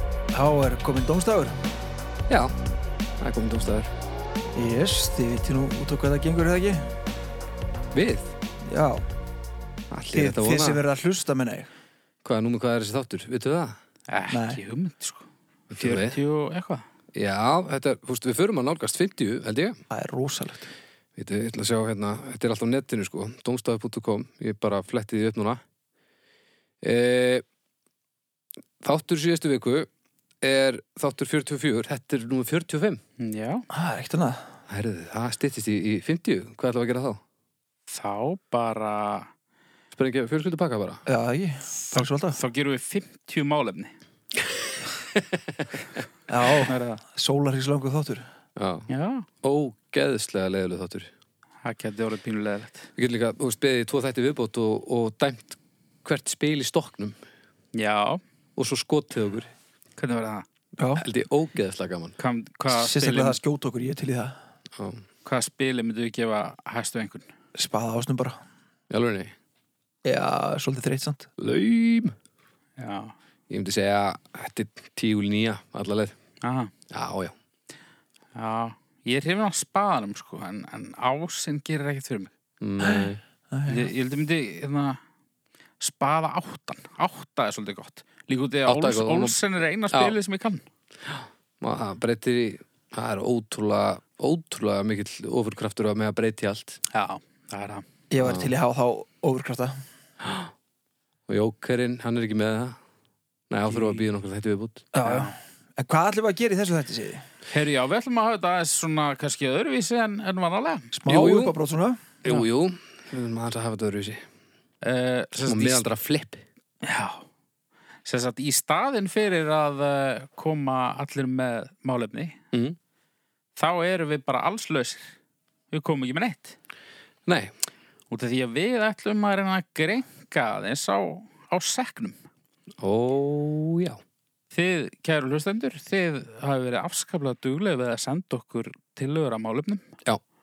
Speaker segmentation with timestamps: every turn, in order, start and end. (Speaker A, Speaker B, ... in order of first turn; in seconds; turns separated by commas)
Speaker A: 0.3-1.6, Speaker B: 2.3-2.5, Speaker B: 3.2-3.9, Speaker A: 4.5-7.0, Speaker B: 7.9-8.3, Speaker A: 8.6-9.1, Speaker B: 9.9-10.8, Speaker A: 10.1-11.7, Speaker B: 12.2-13.8, Speaker C: 14.1-16.8, Speaker A: 14.3-14.6, Speaker B: 15.7-16.2, Speaker B: 17.1-19.8, Speaker A: 19.9-20.7, Speaker B: 21.1-25.6, Speaker B: 26.8-27.4, Speaker B: 28.8-29.9, Speaker B: 30.4-33.0, Speaker C: 33.2-33.6, Speaker A: 33.7-34.5, Speaker B: 34.7-37.2, Speaker C: 37.9-39.3, Speaker B: 39.9-41.0, Speaker A: 41.0-42.4, Speaker C: 41.9-43.9, Speaker A: 46.3-48.2, Speaker C: 46.6-47.0, Speaker B: 48.5-48.9, Speaker C: 48.9-49.3, Speaker B: 49.4-51.1, Speaker C: 51.6-52.9, Speaker B: 53.0-57.1, Speaker C: 57.7-58.2, Speaker B: 58.5-59.5, Speaker C: 60.0-60.5, Speaker A: 60.8-61.0, Speaker B: 61.0-62.1, Speaker C: 62.2-63.4, Speaker A: 62.7-64.3, Speaker B: 64.8-65.0, Speaker C: 65.2-67.3, Speaker A: 67.5-68.4, Speaker B: 68.9-69.3, Speaker A: 70.0-71.3, Speaker B: 71.4-72.1, Speaker C: 72.8-73.1, Speaker B: 73.5-76.1, Speaker C: 76.4-76.7, Speaker B: 76.9-77.3, Speaker C: 78.3-82.3, Speaker B: 82.6-83.2, Speaker A: 82.8-83.9, Speaker C: 83.7-85.0, Speaker C: 85.8-90.6, Speaker B: 88.7-89.3, Speaker B: 91.0-96.8, Speaker C: 96.9-97.8, Speaker A: 98.1-99.8, Speaker B: 98.2-98.5, Speaker B: 100.2-100.5, Speaker B: 101.3-102.8, Speaker B: 103.5-104.8, Speaker C: 103.7-104.1, Speaker A: 104.9-107.2, Speaker C: 105.0-105.3, Speaker C: 107.5-110.9, Speaker A: 110.9-112.0, Speaker B: 111.1-111.6, Speaker B: 112.2-114.2, Speaker C: 114.8-115.8, Speaker B: 115.4-116.4, Speaker C: 116.8-117.2, Speaker C: 118.0-122.4, Speaker C: 123.5-125.1, Speaker C: 125.7-126.5, Speaker B: 127.2-127.5, Speaker C: 128.1-132.2, Speaker B: 132.8-134.0, Speaker C: 134.5-139.9